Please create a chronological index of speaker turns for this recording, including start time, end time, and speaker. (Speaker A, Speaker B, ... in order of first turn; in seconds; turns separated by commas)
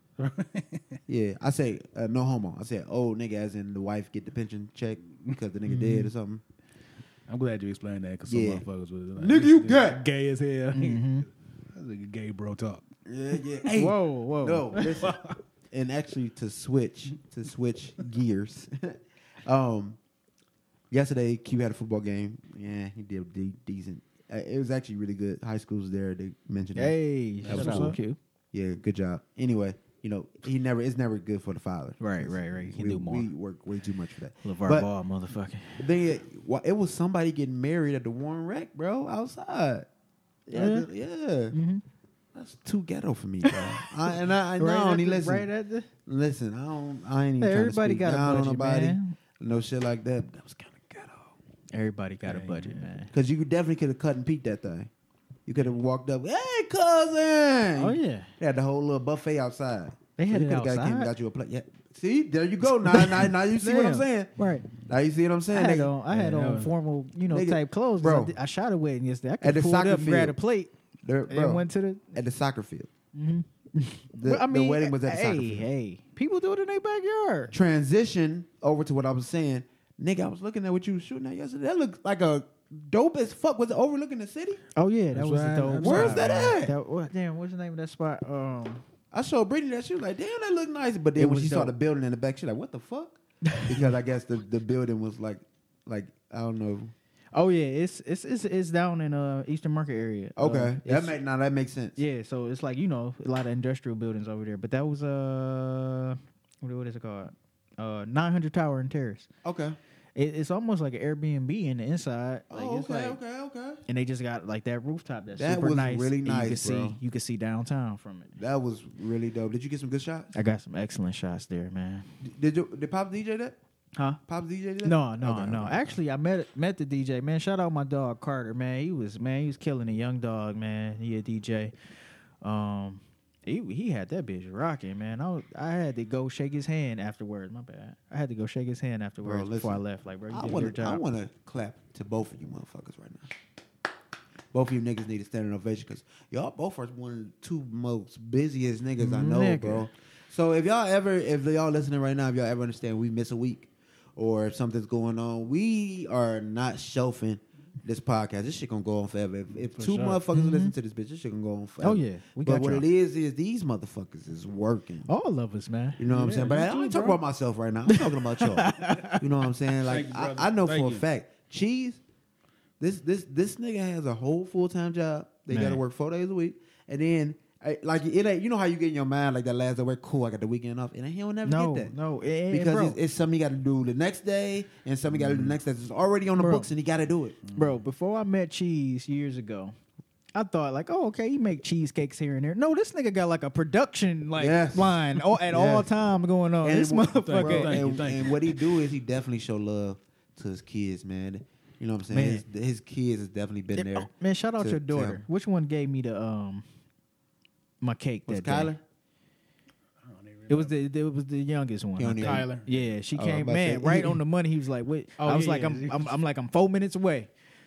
Speaker A: 0.2-1.0, Speaker B: 1.1-6.4, Speaker C: 5.7-6.1, Speaker A: 7.3-12.9, Speaker B: 8.3-8.6, Speaker B: 9.2-10.0, Speaker C: 10.7-11.3, Speaker B: 13.1-15.2, Speaker C: 13.7-15.0, Speaker A: 14.8-15.4, Speaker B: 15.7-20.0, Speaker B: 20.9-28.0, Speaker C: 26.8-28.2, Speaker A: 27.4-28.0, Speaker B: 28.5-34.9, Speaker C: 32.0-33.3, Speaker C: 34.4-35.9, Speaker B: 35.8-39.9, Speaker B: 40.5-41.6, Speaker C: 40.5-40.9, Speaker C: 41.5-41.8, Speaker B: 42.4-45.5, Speaker C: 43.5-45.9, Speaker B: 46.1-51.3, Speaker C: 47.4-49.1, Speaker C: 51.7-53.1, Speaker A: 52.3-52.9, Speaker B: 53.1-54.9, Speaker B: 55.5-65.9, Speaker C: 57.8-58.3, Speaker C: 60.2-61.1, Speaker C: 62.8-64.7, Speaker C: 65.5-70.7, Speaker A: 66.1-66.7, Speaker B: 67.3-68.3, Speaker B: 69.4-70.3, Speaker B: 71.0-71.6, Speaker C: 71.3-72.2, Speaker B: 72.1-72.9, Speaker C: 73.1-77.5, Speaker B: 74.2-75.7, Speaker B: 77.5-84.6, Speaker C: 84.8-88.8, Speaker A: 85.1-86.5, Speaker B: 85.8-86.7, Speaker B: 89.1-96.9, Speaker C: 91.2-91.7, Speaker C: 93.5-93.9, Speaker C: 97.3-101.2, Speaker B: 100.4-102.0, Speaker C: 102.0-109.3, Speaker B: 109.4-109.8, Speaker C: 110.2-113.2, Speaker B: 112.5-113.8, Speaker C: 113.9-118.4, Speaker B: 115.4-117.0, Speaker B: 118.4-120.3, Speaker C: 120.3-122.1, Speaker B: 122.2-123.6, Speaker C: 124.0-124.2, Speaker B: 124.3-126.0, Speaker C: 124.8-131.7, Speaker C: 132.4-141.0, Speaker B: 139.2-143.3, Speaker B: 144.5-165.1, Speaker C: 149.0-149.9, Speaker A: 159.6-160.2, Speaker C: 160.3-160.7, Speaker C: 161.8-162.9, Speaker C: 165.1-166.0, Speaker B: 166.0-172.0, Speaker A: 166.1-167.2, Speaker C: 167.9-169.2, Speaker A: 169.9-171.1, Speaker B: 172.8-181.9, Speaker C: 175.5-175.8, Speaker C: 181.4-183.0, Speaker B: 182.5-187.4, Speaker A: 185.1-185.6, Speaker C: 186.4-186.7, Speaker A: 187.5-187.8, Speaker C: 187.5-189.8, Speaker C: 190.3-197.8, Speaker B: 194.4-195.9, Speaker B: 196.6-205.2, Speaker A: 197.2-198.6, Speaker C: 202.1-202.4, Speaker C: 203.8-206.7, Speaker C: 207.8-208.7, Speaker B: 208.3-208.8, Speaker A: 210.0-210.8, Speaker C: 210.5-217.3, Speaker B: 212.0-212.5, Speaker A: 212.2-212.9, Speaker B: 213.2-214.2, Speaker A: 215.2-216.2